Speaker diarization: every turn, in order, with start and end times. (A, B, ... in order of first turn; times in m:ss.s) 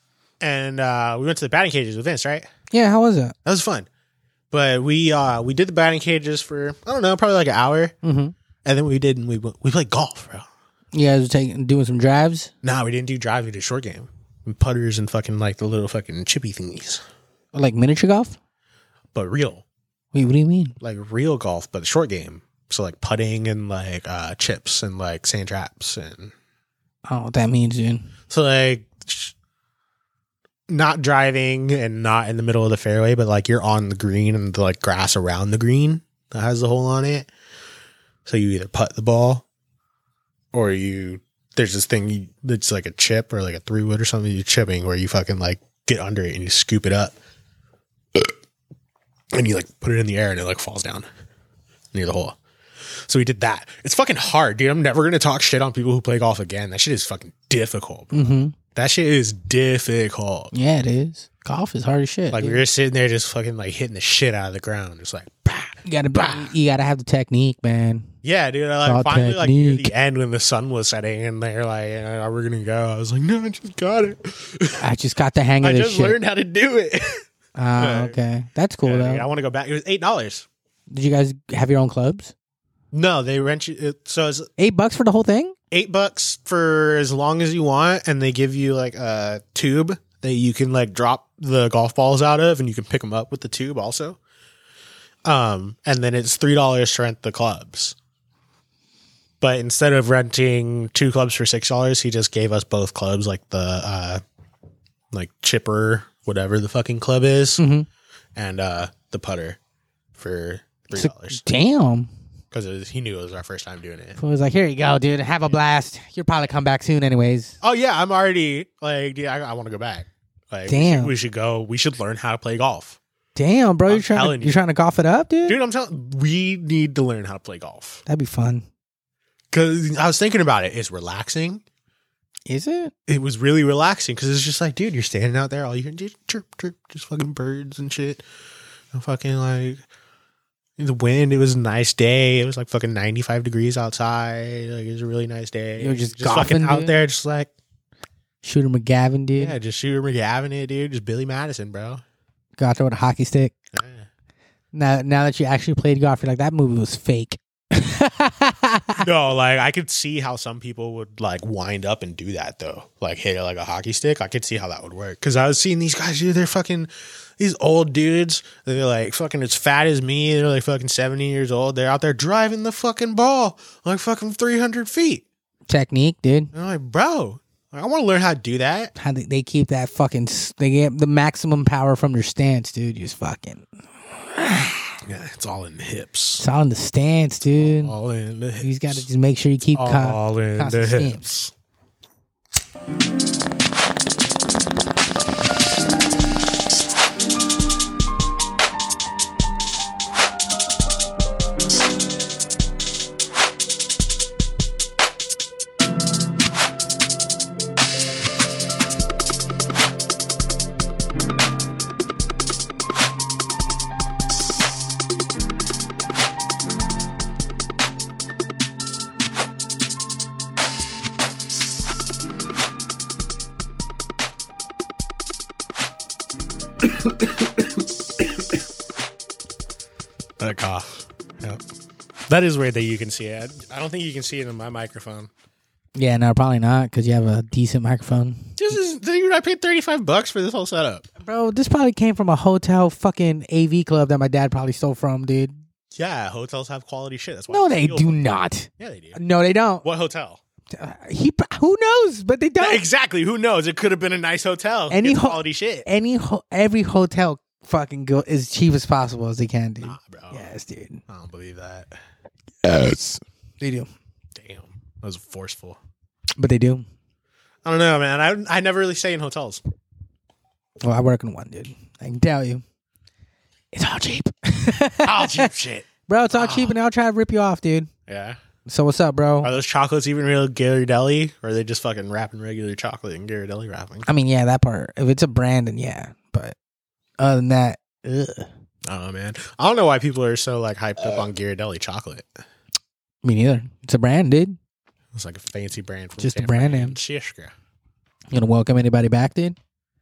0:00.4-0:02.5 A
0:02.7-0:03.4 B
0:03.4-0:03.9 A
0:04.5-0:08.0 A
0:08.0-0:08.3 B
0:08.6-0:10.5 A
0:10.9-0:12.5 B
0:12.6-0:17.0 A
0:17.5-0:18.4 B
0:19.1-0:19.6 A
0:20.1-0:20.8 B
0:20.8-0:26.3 A
0:27.1-0:28.1 B
0:28.3-0:29.3 A
0:30.7-0:37.3 A
0:38.3-0:39.4 A
0:40.5-0:47.2 A
0:49.3-0:51.1 A
0:51.9-0:52.4 A
0:53.0-1:00.5 A
0:58.1-0:58.6 B
1:00.5-1:02.6 B
1:02.3-1:06.5 A
1:05.8-1:08.1 B
1:08.2-1:14.8 A
1:08.8-1:09.9 B
1:14.8-1:16.2 B
1:15.6-1:17.2 A
1:17.6-1:19.3 B
1:17.8-1:18.2 A
1:18.8-1:20.5 A
1:20.9-1:22.3 B
1:22.9-1:24.5 A
1:24.6-1:25.5 B
1:25.7-1:34.2 A
1:35.2-1:38.0 A
1:39.4-1:44.2 A
1:45.1-1:47.6 A
1:47.6-1:47.9 B
1:48.4-1:49.6 A
1:50.2-1:51.4 A
1:51.0-1:52.1 B
1:52.5-1:54.2 A
1:54.2-1:57.6 B
1:57.6-2:03.0 A
2:00.7-2:01.1 B
2:03.4-2:05.6 B
2:03.9-2:04.6 A
2:05.5-2:08.0 A
2:08.1-2:08.7 B
2:09.5-2:11.6 A
2:12.5-2:12.9 B
2:13.1-2:18.2 A
2:18.9-2:19.8 A
2:20.8-2:27.5 A
2:25.8-2:27.0 B
2:28.4-2:29.6 B
2:29.4-2:32.0 A
2:32.6-2:33.5 B
2:33.7-2:34.1 A
2:34.7-2:39.0 B
2:39.0-2:55.2 A
2:55.7-2:56.5 B
2:56.5-2:58.9 A
2:59.0-3:05.0 B
3:05.0-3:06.4 A
3:06.4-3:08.0 B
3:07.5-3:09.1 A
3:08.6-3:11.3 B
3:09.8-3:11.5 A
3:47.0-3:47.7 A
3:50.4-3:51.6 A
3:52.3-3:55.3 A
3:56.0-3:58.7 B
3:58.6-4:01.1 A
4:01.2-4:05.6 B
4:06.0-4:08.2 A
4:07.5-4:09.8 B
4:08.8-4:09.2 A
4:09.8-4:10.4 A
4:10.7-4:12.8 B
4:12.6-4:15.9 A
4:14.9-4:21.0 B
4:19.8-4:20.5 A
4:21.1-4:21.9 A
4:22.6-4:23.9 B
4:24.4-4:25.8 A
4:26.4-4:26.8 B
4:27.6-4:29.6 A
4:30.8-4:32.6 B
4:33.7-4:35.5 B
4:35.0-4:36.8 A
4:36.1-4:37.9 B
4:38.1-4:38.4 A
4:38.7-4:39.5 B
4:39.4-4:44.1 A
4:44.1-4:46.6 B
4:47.2-4:48.5 B
4:48.9-4:52.3 A
4:53.2-4:54.6 B
4:55.1-4:57.5 A
4:56.2-4:57.0 B
4:58.3-4:59.6 B